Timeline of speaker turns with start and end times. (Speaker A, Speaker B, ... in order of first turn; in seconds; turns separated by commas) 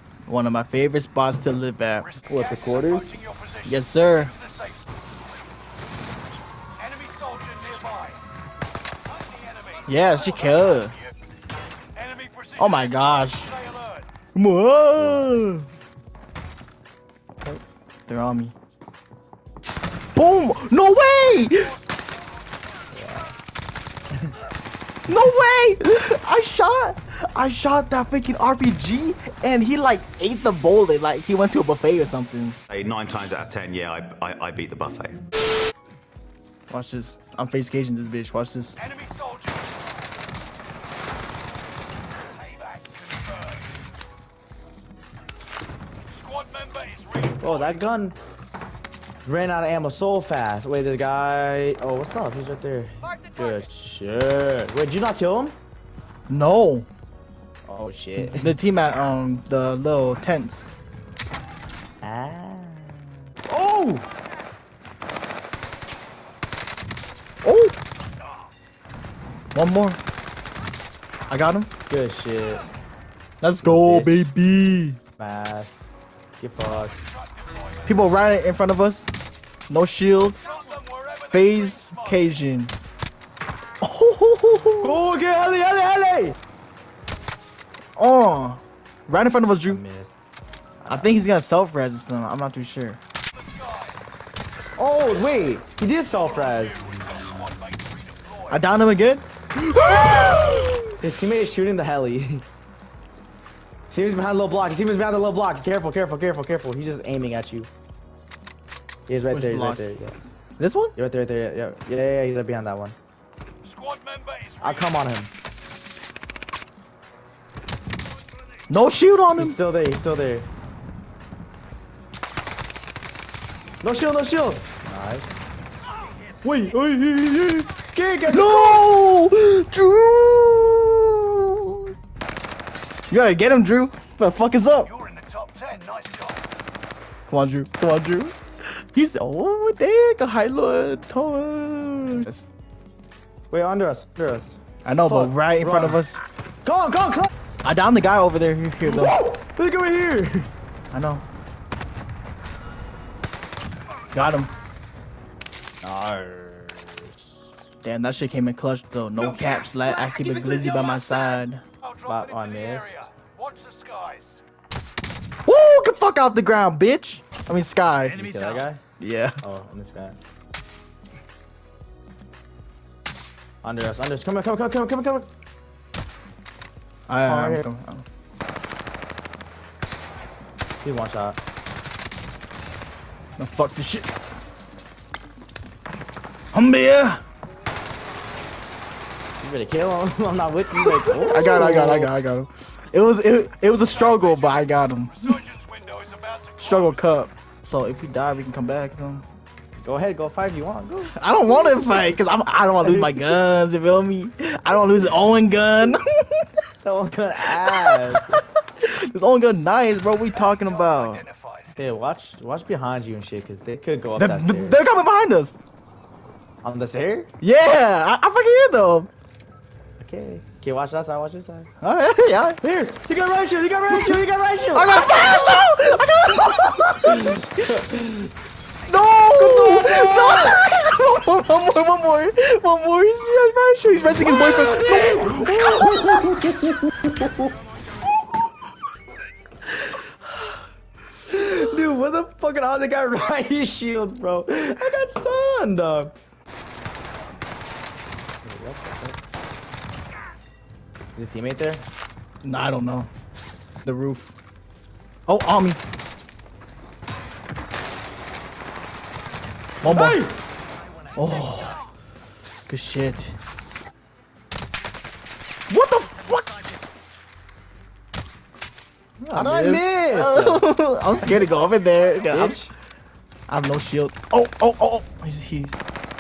Speaker A: 0.3-2.1, Speaker B: 2.3-3.2, Speaker C: 2.6-3.2, Speaker A: 3.6-4.3, Speaker C: 6.9-8.2, Speaker C: 9.4-9.8, Speaker A: 9.9-10.9, Speaker C: 12.0-12.5, Speaker A: 12.6-13.5, Speaker A: 14.3-15.7, Speaker B: 15.0-15.4, Speaker A: 18.1-18.5, Speaker A: 20.1-21.7, Speaker B: 22.9-23.3, Speaker A: 25.1-32.6, Speaker D: 32.7-35.2, Speaker A: 36.7-38.8, Speaker C: 38.9-39.4, Speaker C: 46.3-47.4, Speaker B: 47.4-48.2, Speaker B: 49.2-55.6, Speaker A: 56.3-56.9, Speaker B: 57.7-58.5, Speaker A: 58.2-60.7, Speaker B: 62.0-64.0, Speaker A: 67.4-67.8, Speaker A: 69.5-70.0, Speaker A: 71.3-71.7, Speaker B: 71.9-72.7, Speaker A: 73.4-75.0, Speaker B: 73.6-74.3, Speaker B: 75.2-75.9, Speaker B: 76.4-77.0, Speaker A: 77.9-79.1, Speaker A: 79.7-80.4, Speaker C: 80.7-81.2, Speaker A: 81.3-82.7, Speaker A: 83.8-85.0, Speaker B: 84.8-86.4, Speaker A: 88.0-89.8, Speaker B: 89.7-90.2, Speaker B: 90.8-91.2, Speaker A: 90.9-93.0, Speaker B: 94.8-96.9, Speaker C: 97.3-97.9, Speaker A: 98.5-101.0, Speaker B: 101.0-102.5, Speaker B: 103.9-107.7, Speaker B: 109.1-110.2, Speaker A: 109.3-109.8, Speaker A: 110.6-111.0, Speaker B: 111.0-113.0, Speaker C: 113.7-114.6, Speaker B: 114.6-115.3, Speaker A: 118.7-119.6, Speaker B: 119.4-120.5, Speaker B: 123.8-125.3, Speaker B: 126.4-128.9, Speaker A: 128.3-131.9, Speaker A: 133.1-134.9, Speaker C: 135.0-136.3, Speaker A: 137.3-138.3, Speaker A: 138.9-142.5, Speaker B: 143.5-146.0, Speaker A: 144.8-146.2, Speaker B: 146.7-147.3, Speaker A: 147.6-149.2, Speaker B: 148.8-150.5, Speaker A: 150.9-151.2, Speaker A: 154.1-154.5, Speaker B: 155.8-156.9, Speaker A: 157.8-161.6, Speaker B: 162.1-163.1, Speaker C: 162.7-164.4, Speaker A: 165.5-168.2, Speaker B: 168.1-168.8, Speaker A: 169.0-169.4, Speaker B: 169.4-170.2, Speaker B: 173.6-175.3, Speaker A: 177.1-178.1, Speaker B: 177.2-177.7, Speaker B: 180.8-181.4, Speaker A: 183.4-184.1, Speaker A: 186.5-187.2, Speaker B: 189.4-192.1, Speaker A: 190.8-195.4, Speaker C: 195.3-196.5, Speaker A: 196.6-199.2, Speaker B: 199.8-202.0, Speaker A: 201.2-206.5, Speaker B: 202.8-203.3, Speaker B: 206.8-208.4, Speaker A: 207.7-211.2, Speaker B: 211.8-214.8, Speaker A: 214.2-215.6, Speaker B: 216.6-217.3, Speaker A: 217.4-219.1, Speaker B: 220.0-221.7, Speaker A: 221.8-222.6, Speaker B: 222.6-225.8, Speaker A: 224.8-227.5, Speaker B: 226.4-228.3, Speaker A: 228.9-236.2, Speaker B: 229.3-230.6, Speaker B: 234.4-237.6, Speaker B: 241.3-246.2, Speaker B: 248.4-249.2, Speaker B: 251.2-251.9, Speaker A: 252.4-253.1, Speaker A: 253.8-254.3, Speaker A: 255.3-255.8, Speaker A: 259.8-260.2, Speaker B: 259.8-260.4, Speaker A: 261.1-261.8, Speaker A: 262.7-263.4, Speaker A: 265.7-266.6, Speaker A: 269.2-272.6, Speaker B: 269.3-270.7, Speaker B: 271.2-271.5, Speaker B: 272.3-272.7, Speaker A: 273.5-275.8